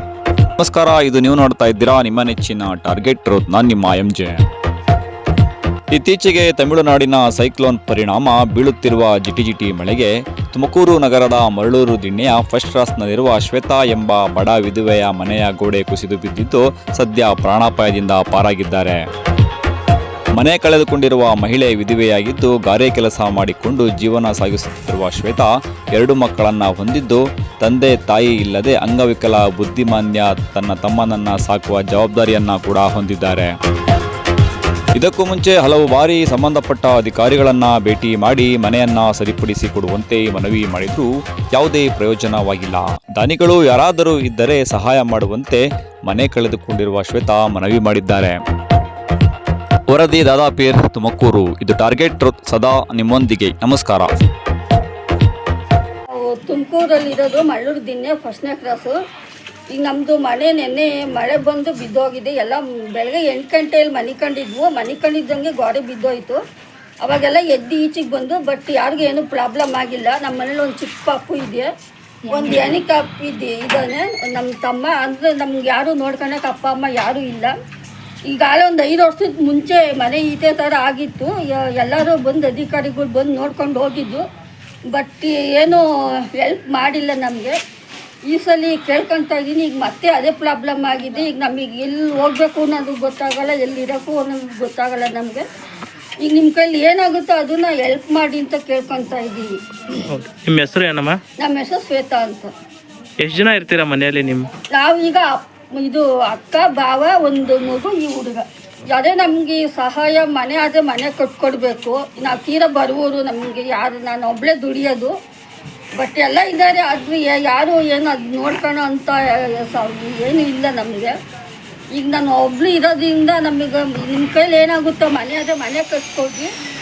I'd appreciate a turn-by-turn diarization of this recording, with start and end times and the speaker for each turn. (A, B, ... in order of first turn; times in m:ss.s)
0:00.6-0:04.5 A
0:05.9-0:19.0 A
0:20.4-0:33.5 A
0:35.0-0:48.4 A
0:49.9-0:54.1 A
0:56.1-0:59.0 B
0:59.7-1:06.4 B
1:07.0-1:11.7 B
1:12.3-1:17.5 B
1:18.3-1:24.2 B
1:24.9-1:27.6 B
1:28.3-1:35.5 B
1:36.2-1:39.5 B
1:40.0-1:41.2 C
1:41.4-1:42.5 B
1:43.2-1:44.5 C
1:44.7-1:55.1 B
1:56.0-2:01.1 B
2:02.0-2:06.5 B